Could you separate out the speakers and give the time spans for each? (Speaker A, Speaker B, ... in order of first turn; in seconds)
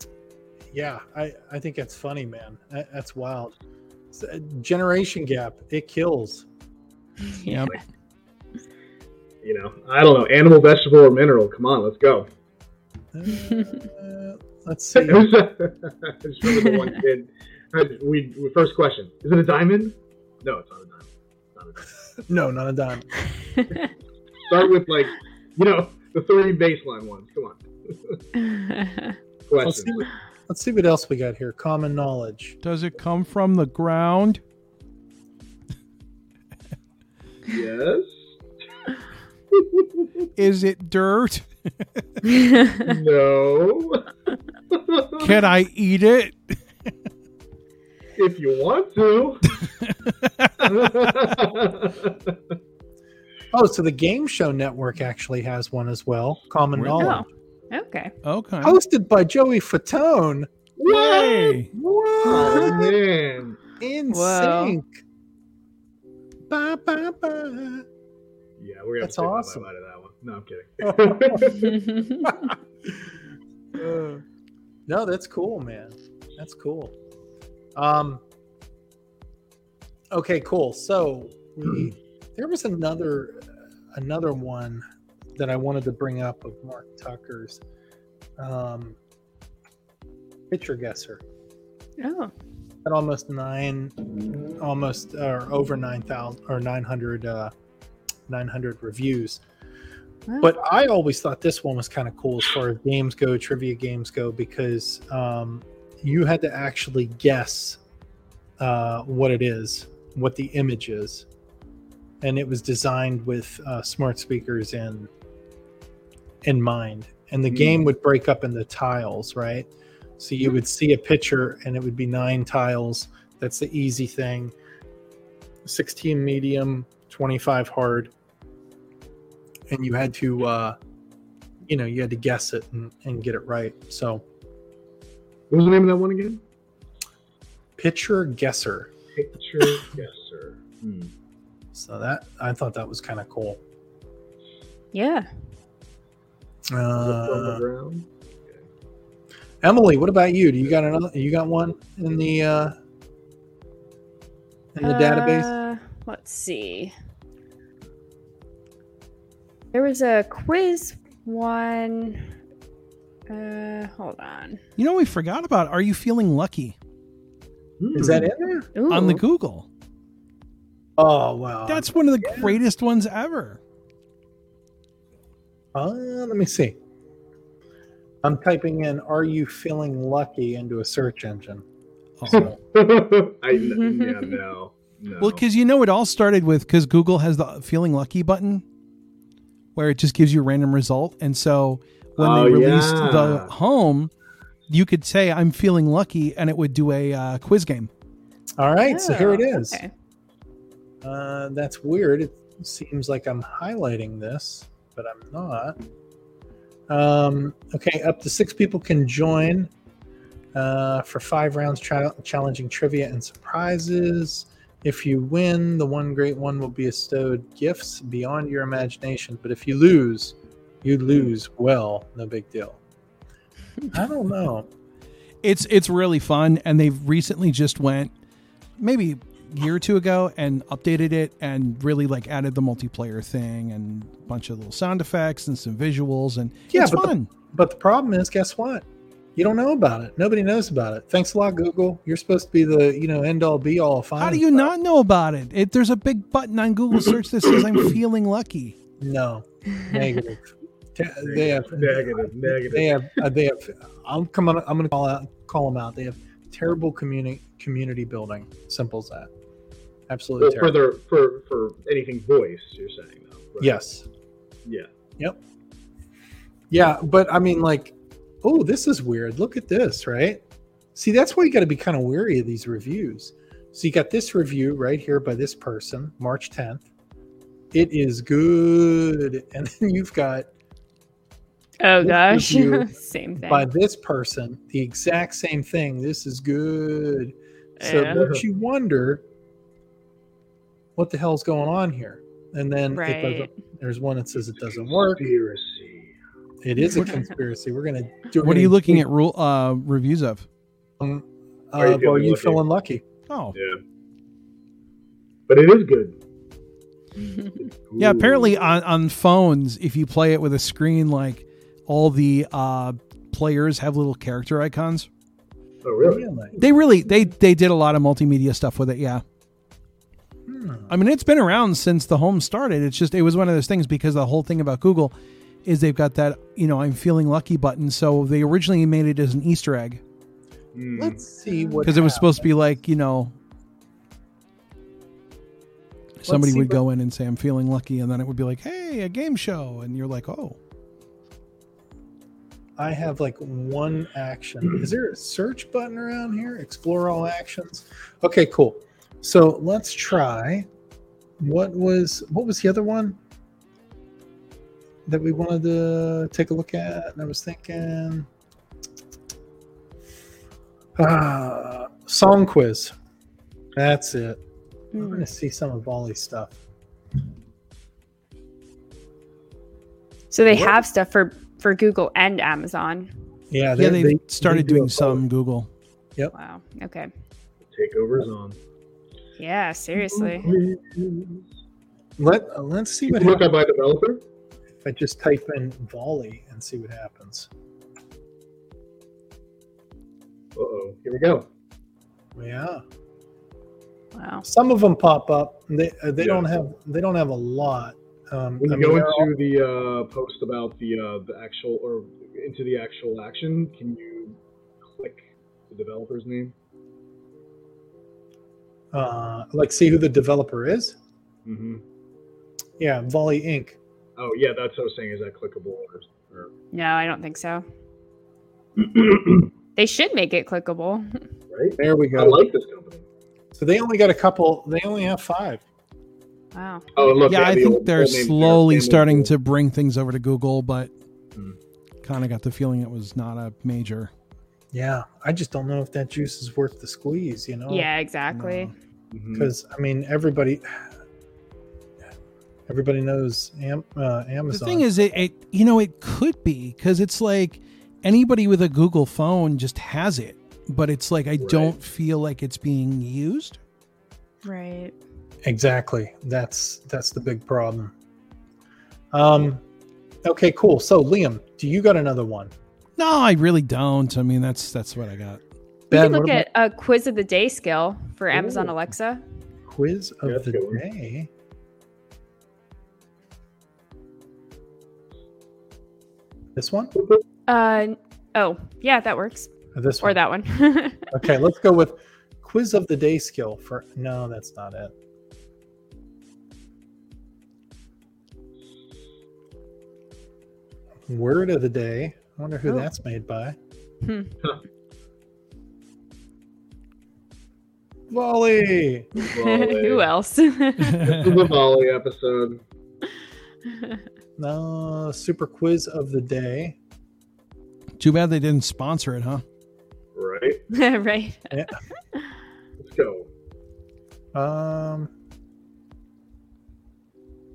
Speaker A: 0.7-3.5, 4.1-6.5, 13.1-15.3, 22.3-23.2, 29.6-32.6, 53.5-57.2, 58.6-60.5, 61.7-63.0, 63.8-65.0, 66.5-67.8, 69.0-69.7, 70.8-73.0, 73.8-74.2, 74.9-76.9, 77.8-78.2, 80.1-84.8, 85.4-87.6, 88.4-89.0, 90.5-91.2, 92.8-97.5, 98.3-99.4, 100.4-107.8, 108.6-111.3, 112.2-115.1, 116.4-124.5, 125.6-128.1, 129.7-130.8, 131.7-134.2, 137.8-138.9, 141.7-143.6, 146.7-147.6, 149.6-152.8, 154.7-155.5, 167.9-168.7, 171.0-172.6, 175.7-176.8, 178.2-181.6, 182.3-182.6, 198.6-199.8, 201.0-205.8, 206.9-209.7, 210.6-222.8, 223.9-224.7, 236.7-238.8, 239.4-244.7, 249.0-259.3, 260.1-260.8, 263.6-264.1, 266.7-270.4, 270.9-276.9, 277.7-280.5, 282.0-289.2, 290.9-295.2, 296.6-299.1, 301.0-303.1, 316.0-316.6, 320.5-320.9, 330.9-332.5, 336.3-336.8, 342.8-350.7, 351.4-353.2, 355.1-358.3, 361.0-362.9, 363.8-364.4, 365.0-366.6, 370.5-370.8, 373.5-375.2, 382.2-383.5, 384.8-387.5, 392.4-392.8, 394.4-399.3, 408.9-410.9, 412.8-413.8, 421.8-422.4, 423.6-425.6, 434.7-438.7, 439.3-440.8, 442.7-444.9, 455.4-457.9, 459.1-459.6, 460.2-462.5, 465.9-466.5, 469.7-471.3, 476.6-476.9, 479.7-480.2, 481.1-484.9, 491.1-493.6, 498.1-499.1, 504.4-506.8, 514.3-515.1
Speaker B: 7.2-7.8, 16.5-16.9, 28.4-29.2, 42.3-42.8, 57.0-58.1, 64.1-64.8, 71.6-72.3, 92.0-92.3, 100.3-100.5, 144.9-145.3, 154.8-156.9, 159.7-162.3, 163.3-164.6, 168.8-169.2, 183.5-184.4, 198.9-199.9, 281.8-283.7, 287.8-288.2, 292.9-293.5, 331.5-331.9, 364.9-365.3, 370.3-373.1, 376.3-377.1, 379.4-380.5, 394.1-394.4, 416.7-417.6, 419.8-421.2, 426.5-426.9, 437.7-438.7, 454.4-454.9, 465.9-469.2, 477.5-481.1, 494.0-494.4, 499.2-501.1, 503.7-504.0, 510.7-511.6
Speaker C: 7.5-7.8, 32.6-34.4, 40.4-42.0, 45.2-46.6, 49.8-50.9, 56.8-57.2, 58.2-58.8, 60.9-61.7, 164.8-166.8, 168.9-169.7, 171.7-173.6, 182.2-182.5, 185.2-188.6, 189.8-194.1, 194.7-197.9, 225.4-228.1, 228.8-237.3, 244.2-248.8, 298.4-300.4, 303.3-303.6, 308.0-315.1, 316.6-319.2, 320.9-325.1, 325.6-330.0, 331.8-333.4, 336.2-340.6, 373.8-375.7, 427.3-430.9, 432.0-434.1, 444.5-453.6, 463.0-465.4, 500.9-501.4, 508.0-509.4
Speaker D: 9.4-12.3, 15.0-22.1, 24.5-28.2, 29.5-30.0, 37.5-38.2, 39.5-40.3, 42.7-44.1, 44.7-45.4, 48.1-49.6, 50.6-52.4, 60.8-61.6, 62.2-63.6, 68.6-71.8, 117.5-117.8, 135.5-136.4, 139.1-141.1, 147.0-148.6, 167.8-168.3, 182.3-185.4, 192.2-193.5, 251.2-253.2, 260.4-263.8, 288.1-288.4, 294.5-296.1, 301.8-302.6, 305.5-306.2, 307.4-308.7, 315.8-316.3, 330.7-331.2, 377.7-378.6, 380.1-381.5, 383.1-384.2, 390.6-391.5, 396.2-396.5, 398.6-404.4, 404.9-406.5, 411.4-411.8, 414.2-416.5, 418.8-419.5, 421.5-423.0, 426.9-429.3, 439.1-439.5, 451.4-451.7, 468.3-468.7, 470.2-470.8, 476.9-477.2, 499.2-500.1, 500.9-502.6, 510.1-510.6, 512.8-513.3